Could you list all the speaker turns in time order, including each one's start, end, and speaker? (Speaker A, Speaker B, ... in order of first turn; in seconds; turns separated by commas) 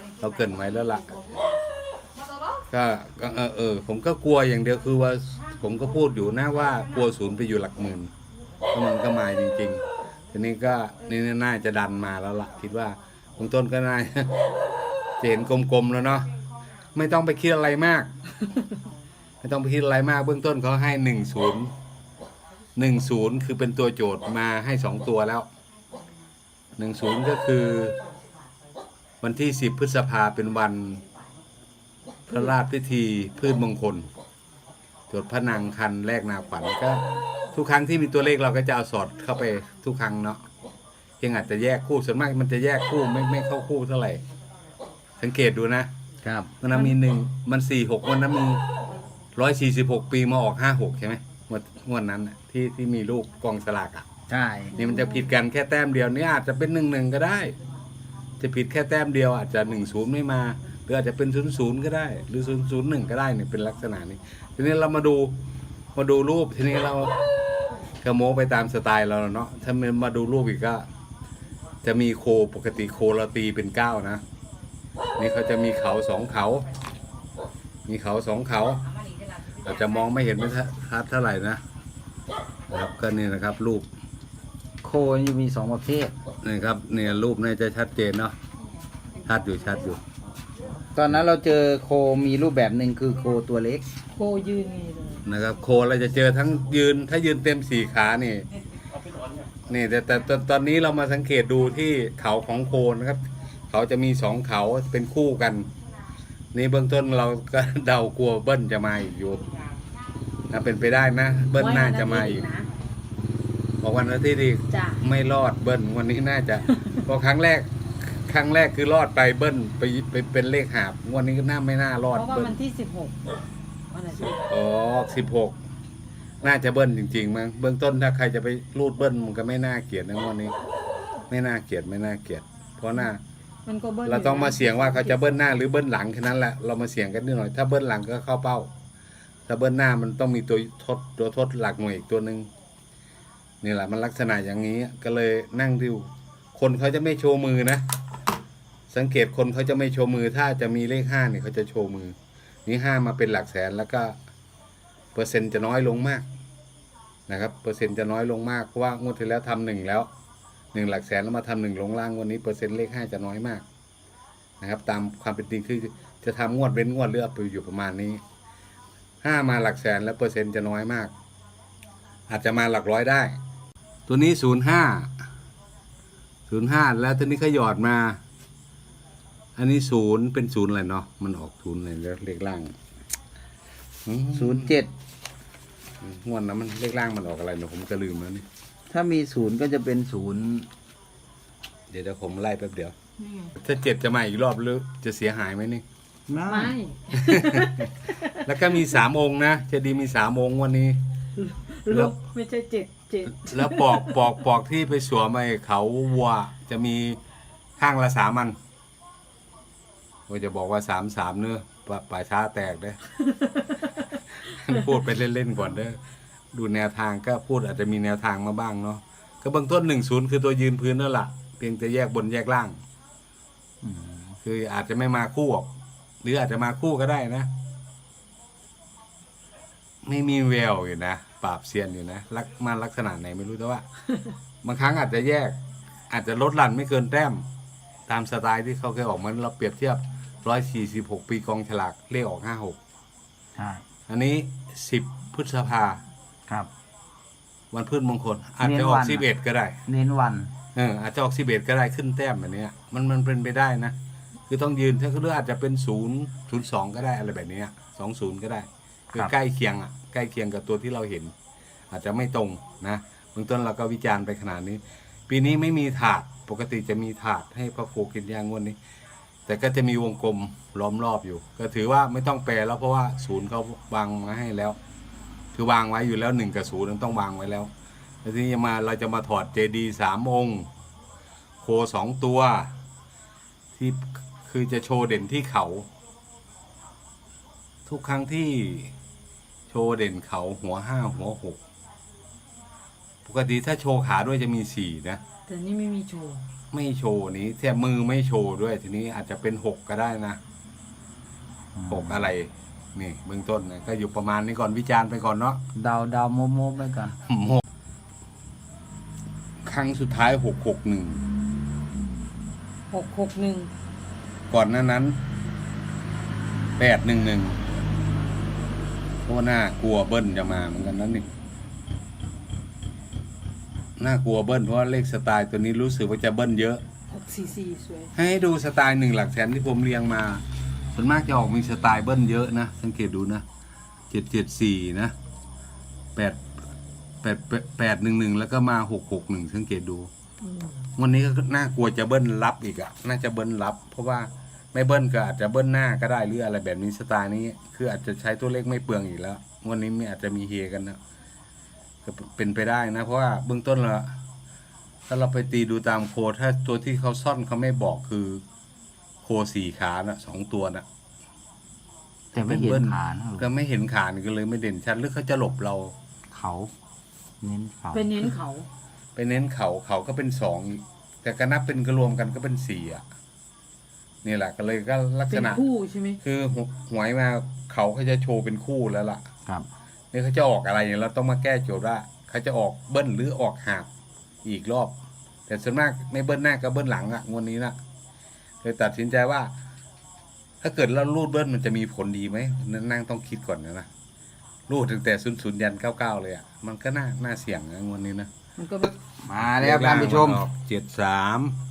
Speaker A: 0.2-1.2, Speaker A: 2.7-8.1, Speaker A: 8.7-14.5, Speaker A: 15.2-16.3, Speaker A: 16.9-18.1, Speaker A: 19.4-21.7, Speaker A: 22.8-25.5, Speaker A: 26.8-27.9, Speaker A: 29.2-31.0, Speaker A: 32.3-34.1, Speaker A: 35.1-40.4, Speaker A: 41.2-44.2, Speaker A: 45.2-45.9, Speaker B: 46.2-46.5, Speaker A: 46.6-48.6, Speaker A: 49.4-54.1, Speaker B: 54.3-54.7, Speaker C: 54.7-55.3, Speaker A: 54.7-57.5, Speaker A: 58.4-65.3, Speaker A: 65.9-67.2, Speaker A: 68.0-70.9, Speaker A: 71.8-74.2, Speaker A: 75.2-76.7, Speaker A: 77.9-78.8, Speaker A: 79.6-81.6, Speaker A: 82.7-83.9, Speaker B: 84.8-86.1, Speaker A: 86.4-88.3, Speaker A: 89.2-90.0, Speaker B: 90.9-93.8, Speaker C: 94.1-95.2, Speaker A: 95.2-98.5, Speaker A: 99.7-105.7, Speaker A: 106.5-109.5, Speaker A: 110.5-112.5, Speaker C: 111.5-112.7, Speaker A: 113.8-122.5, Speaker C: 114.7-115.0, Speaker C: 122.1-123.2, Speaker C: 123.9-124.4, Speaker A: 124.3-125.6, Speaker A: 126.4-130.5, Speaker A: 131.3-133.2, Speaker C: 133.7-135.3, Speaker A: 134.0-138.7, Speaker A: 139.5-142.5, Speaker A: 143.6-147.8, Speaker A: 148.9-154.2, Speaker A: 155.1-156.3, Speaker A: 157.3-160.1, Speaker A: 160.7-163.6, Speaker A: 164.6-168.2, Speaker A: 169.2-171.1, Speaker A: 172.3-173.4, Speaker A: 174.1-175.1, Speaker A: 176.5-178.2, Speaker A: 179.6-182.7, Speaker A: 184.1-184.8, Speaker B: 184.3-184.9, Speaker A: 186.0-188.4, Speaker B: 188.9-190.7, Speaker A: 191.9-192.9, Speaker C: 193.2-193.5, Speaker A: 193.6-195.8, Speaker B: 196.3-196.7, Speaker C: 196.4-198.8, Speaker A: 197.1-201.0, Speaker C: 201.4-204.3, Speaker A: 201.9-202.1, Speaker A: 203.3-207.2, Speaker A: 207.8-208.6, Speaker A: 210.3-213.0, Speaker A: 214.4-216.0, Speaker A: 216.5-222.8, Speaker B: 223.8-224.3, Speaker A: 224.4-225.7, Speaker A: 226.2-227.5, Speaker A: 230.0-233.8, Speaker A: 234.6-235.6, Speaker A: 236.1-237.4, Speaker A: 238.1-242.8, Speaker B: 243.6-243.8, Speaker A: 244.1-246.0, Speaker A: 247.7-249.8, Speaker B: 248.6-249.2, Speaker B: 249.9-250.5, Speaker A: 250.7-253.9, Speaker A: 254.5-261.3, Speaker A: 261.9-268.8, Speaker A: 269.4-274.8, Speaker A: 275.5-277.7, Speaker A: 278.2-280.7, Speaker A: 281.6-282.7, Speaker A: 283.7-285.9, Speaker A: 287.9-288.9, Speaker A: 289.7-291.6, Speaker A: 293.2-295.2, Speaker C: 295.5-296.4, Speaker A: 296.7-300.4, Speaker B: 301.7-302.3, Speaker A: 301.9-305.6, Speaker B: 305.7-307.2, Speaker A: 307.3-307.6, Speaker A: 309.6-311.2, Speaker C: 312.9-313.7, Speaker A: 314.5-315.2, Speaker A: 316.8-317.6, Speaker A: 319.2-321.2, Speaker A: 324.0-326.8, Speaker C: 327.1-328.1, Speaker A: 328.1-333.4, Speaker A: 334.1-335.1, Speaker A: 336.1-336.4, Speaker A: 337.2-340.1, Speaker C: 340.4-340.7, Speaker A: 341.0-351.0, Speaker A: 352.0-354.1, Speaker A: 355.1-358.4, Speaker A: 359.2-360.8, Speaker B: 362.3-363.4, Speaker A: 362.4-365.9, Speaker B: 366.3-366.7, Speaker B: 367.4-368.3, Speaker C: 367.9-368.7, Speaker A: 369.1-373.0, Speaker A: 374.2-375.6, Speaker C: 375.3-376.2, Speaker A: 376.2-379.2, Speaker A: 380.1-383.9, Speaker A: 384.4-384.9, Speaker A: 385.5-387.8, Speaker A: 388.6-389.5, Speaker A: 390.6-393.9, Speaker A: 394.7-398.3, Speaker C: 398.6-398.9, Speaker B: 399.2-400.4, Speaker A: 399.5-401.6